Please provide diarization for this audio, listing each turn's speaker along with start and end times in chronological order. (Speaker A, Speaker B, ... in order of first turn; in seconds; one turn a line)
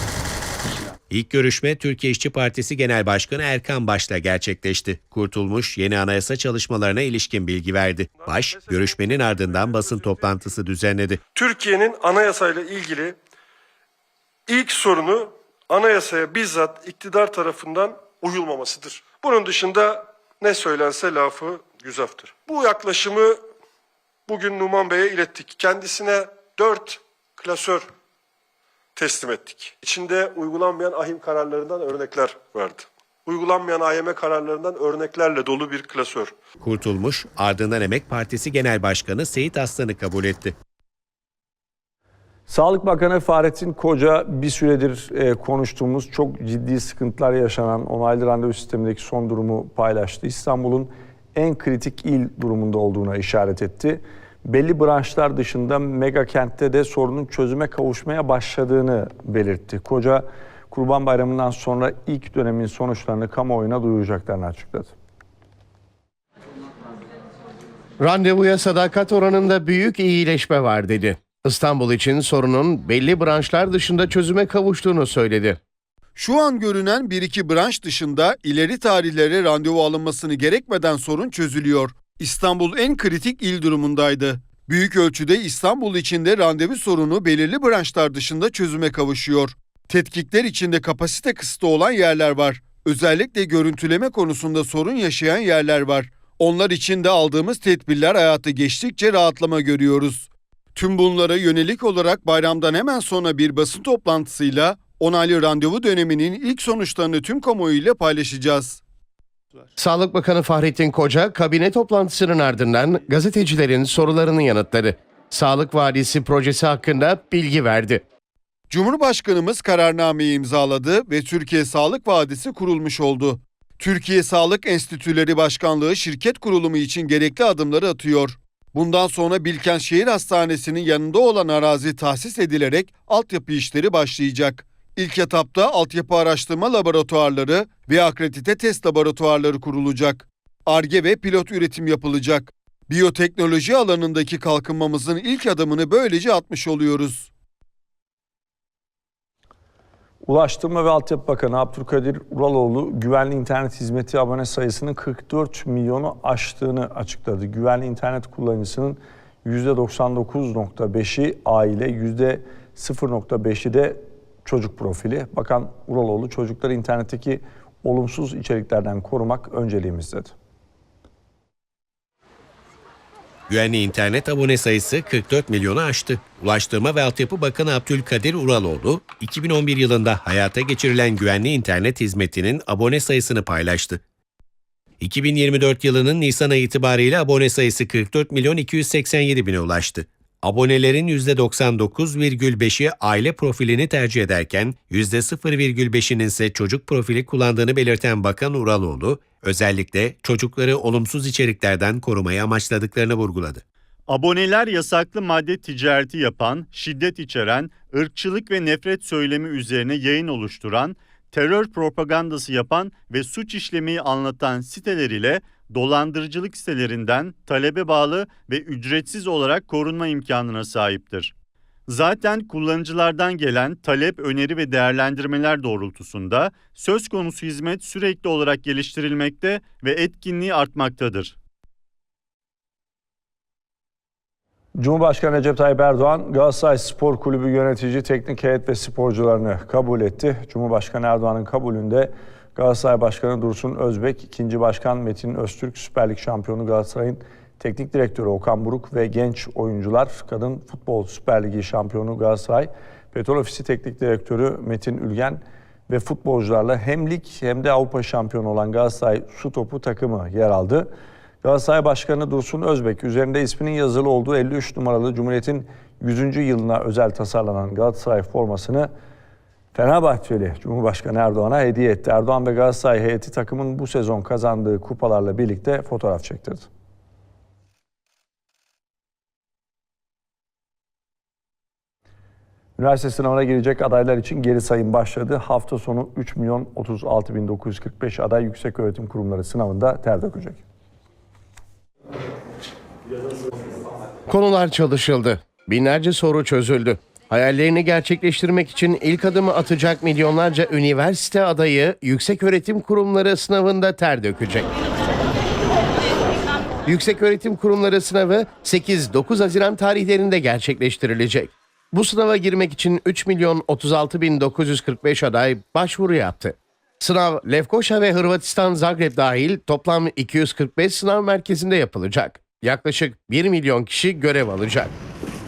Speaker A: 1.1-11.2
Speaker B: 8.2-8.7
Speaker B: 11.3-13.2
Speaker B: 14.5-23.4
Speaker B: 24.3-27.9
Speaker B: 28.9-36.3
Speaker A: 36.6-40.5
Speaker C: 42.5-64.9
Speaker D: 68.0-75.6
Speaker E: 76.2-108.8
Speaker D: 109.8-118.0
Speaker E: 118.7-147.3
Speaker C: 150.2-170.3
Speaker A: 173.5-184.0
Speaker A: 185.0-203.6
Speaker F: 204.1-221.3
Speaker F: 221.9-231.3
Speaker C: 234.8-260.9
Speaker C: 261.4-268.9
Speaker C: 269.7-276.7
Speaker C: 282.8-290.6
Speaker D: 294.3-304.7
Speaker D: 306.9-324.9